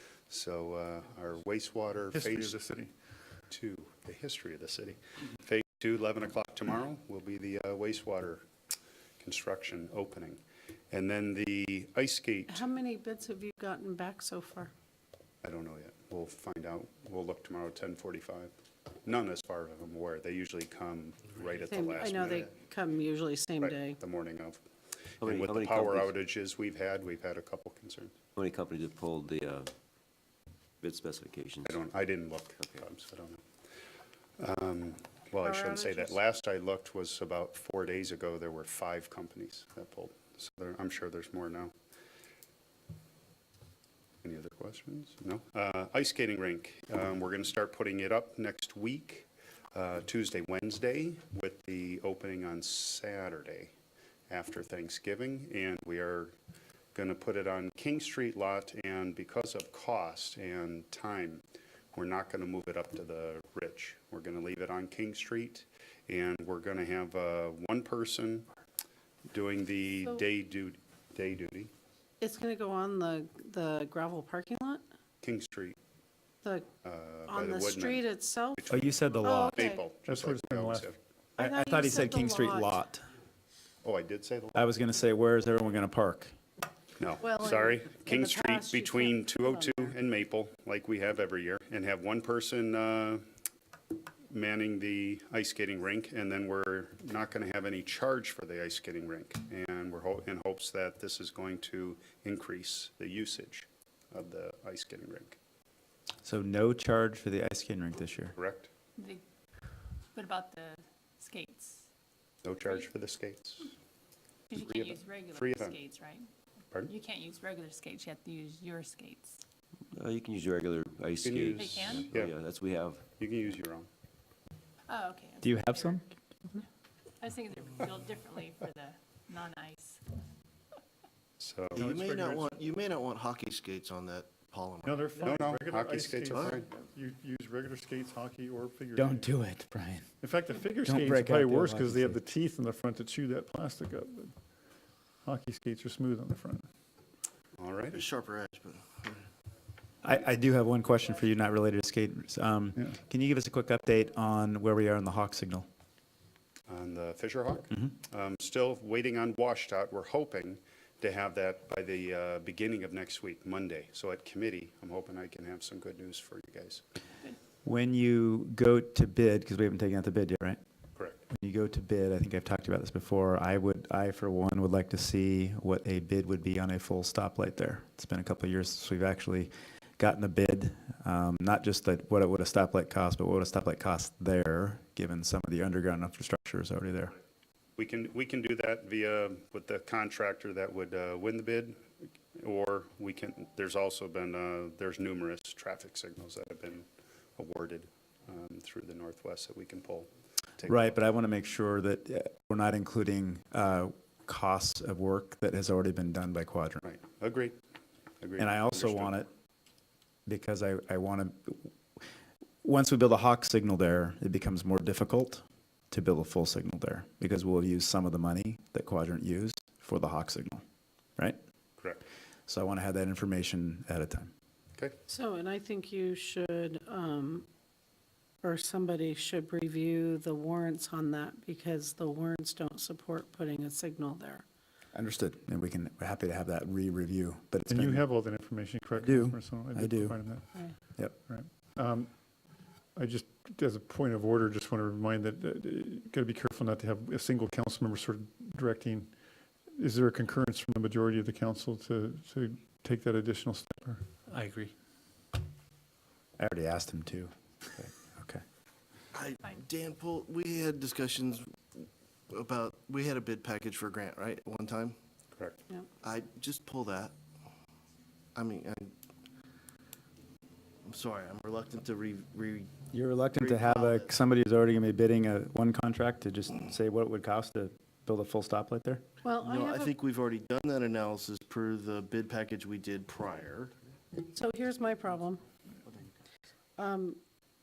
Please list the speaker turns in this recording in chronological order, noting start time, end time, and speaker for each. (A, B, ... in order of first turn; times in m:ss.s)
0:00.3-0:02.6 A
0:02.1-0:02.9 B
0:03.5-0:08.4 A
0:09.2-0:12.7 A
0:12.5-0:14.7 C
0:15.4-0:18.5 A
0:19.0-0:22.5 A
0:21.6-0:24.0 C
0:23.6-0:24.6 A
0:25.2-0:28.2 A
0:25.2-0:26.2 D
0:28.4-0:29.7 D
0:30.8-0:31.8 D
0:31.6-0:33.4 A
0:32.6-0:32.8 D
0:34.4-0:41.7 A
0:35.4-0:36.2 C
0:44.2-0:53.7 A
0:54.3-0:56.3 A
0:57.0-1:08.5 A
1:09.3-1:11.7 A
1:12.2-1:14.8 C
1:15.2-1:15.8 A
1:16.4-1:16.7 C
1:16.8-1:21.0 A
1:17.3-1:18.6 C
1:18.7-1:19.7 E
1:19.2-1:19.9 C
1:20.0-1:20.9 B
1:21.4-1:23.0 E
1:21.4-1:22.8 C
1:23.8-1:24.7 A
1:24.6-1:26.3 E
1:27.0-1:33.2 A
1:27.2-1:29.9 C
1:34.3-1:45.4 A
1:46.2-1:48.4 E
1:48.4-1:48.7 A
1:49.0-1:49.2 F
1:50.1-1:51.8 F
1:52.4-1:53.7 A
1:54.5-1:56.3 F
1:54.5-1:55.8 A
1:56.9-1:59.4 F
2:00.0-2:03.0 D
2:01.2-2:02.3 A
2:01.5-2:02.1 F
2:03.2-2:03.9 A
2:04.9-2:06.0 F
2:05.4-2:06.0 E
2:07.2-2:10.0 F
2:11.4-2:11.8 A
2:11.8-2:12.6 B
2:11.8-2:15.0 G
2:14.8-2:19.3 B
2:15.2-2:16.7 A
2:19.0-2:20.1 E
2:20.2-2:24.4 B
2:20.8-2:22.2 E
2:25.2-2:26.7 B
2:27.6-2:28.0 A
2:27.9-2:29.2 G
2:30.0-2:35.7 E
2:36.7-2:46.8 A
2:47.6-2:50.6 E
2:51.0-2:51.2 A
2:51.3-3:07.2 E
3:07.8-3:11.8 A
3:12.4-3:21.0 A
3:20.7-3:26.8 E
3:26.8-3:27.6 A
3:28.2-3:29.2 A
3:28.4-3:29.3 E
3:30.3-3:31.7 E
3:32.6-3:40.6 E
3:42.5-3:44.3 E
3:45.1-3:47.5 C
3:48.4-3:54.4 C
3:54.9-3:58.0 E
3:57.7-4:02.2 B
3:59.0-4:00.2 E
4:03.0-4:09.1 B
4:09.7-4:14.7 B
4:16.4-4:18.4 E
4:19.1-4:25.0 G
4:25.3-4:25.6 A
4:26.0-4:27.1 G
4:28.4-4:28.9 G
4:30.8-4:32.8 G
4:32.9-4:39.0 E
4:33.3-4:34.1 G
4:39.2-4:39.9 C
4:39.4-4:43.7 G
4:44.3-4:45.4 C
4:46.8-4:47.2 C